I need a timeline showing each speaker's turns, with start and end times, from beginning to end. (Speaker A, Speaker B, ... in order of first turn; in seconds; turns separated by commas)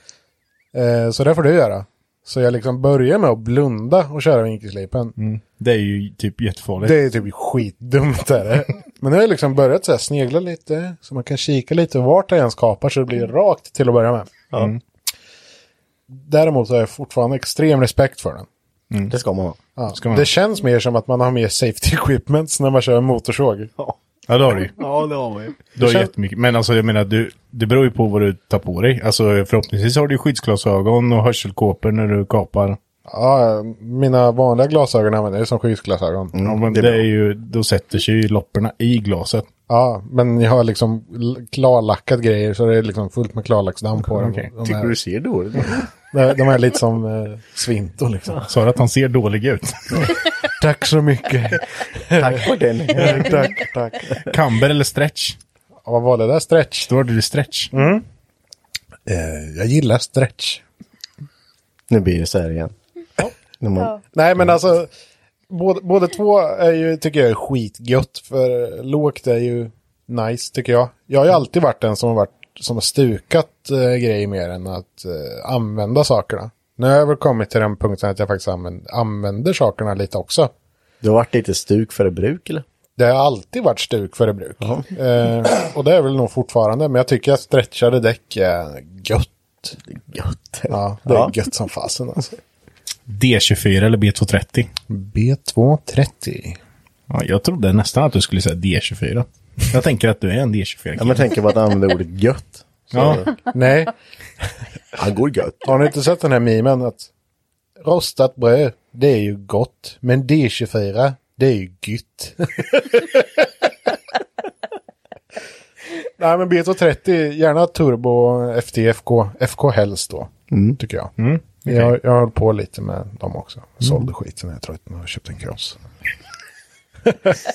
Speaker A: 0.7-5.1, Speaker B: 5.2-7.0, Speaker A: 6.8-14.4, Speaker B: 14.5-14.8, Speaker A: 16.1-18.5, Speaker C: 19.1-19.6, Speaker A: 19.8-23.7, Speaker B: 19.9-20.3, Speaker B: 24.3-24.7, Speaker C: 24.7-25.6, Speaker B: 25.8-32.8, Speaker A: 25.8-26.1, Speaker A: 33.1-36.5, Speaker C: 36.3-37.0, Speaker B: 36.4-39.5, Speaker A: 39.7-45.0, Speaker C: 44.6-45.9, Speaker A: 46.1-48.4, Speaker B: 48.5-50.1, Speaker A: 50.6-54.1, Speaker C: 52.1-53.5, Speaker B: 54.2-55.4, Speaker A: 55.8-56.9, Speaker B: 56.9-57.7, Speaker A: 57.7-58.0, Speaker A: 59.0-60.6, Speaker C: 61.9-62.7, Speaker C: 63.6-64.0, Speaker A: 64.0-64.9, Speaker A: 65.5-80.5, Speaker C: 81.0-82.6, Speaker A: 83.0-89.8, Speaker C: 89.9-91.3, Speaker A: 90.7-92.4, Speaker B: 93.1-94.7, Speaker A: 94.9-96.6, Speaker B: 97.1-101.3, Speaker C: 101.0-103.3, Speaker B: 102.9-103.2, Speaker A: 103.5-104.5, Speaker C: 105.0-105.8, Speaker A: 105.6-107.1, Speaker A: 107.8-113.5, Speaker A: 116.2-125.8, Speaker C: 120.5-120.8, Speaker B: 121.2-121.9, Speaker A: 127.1-127.4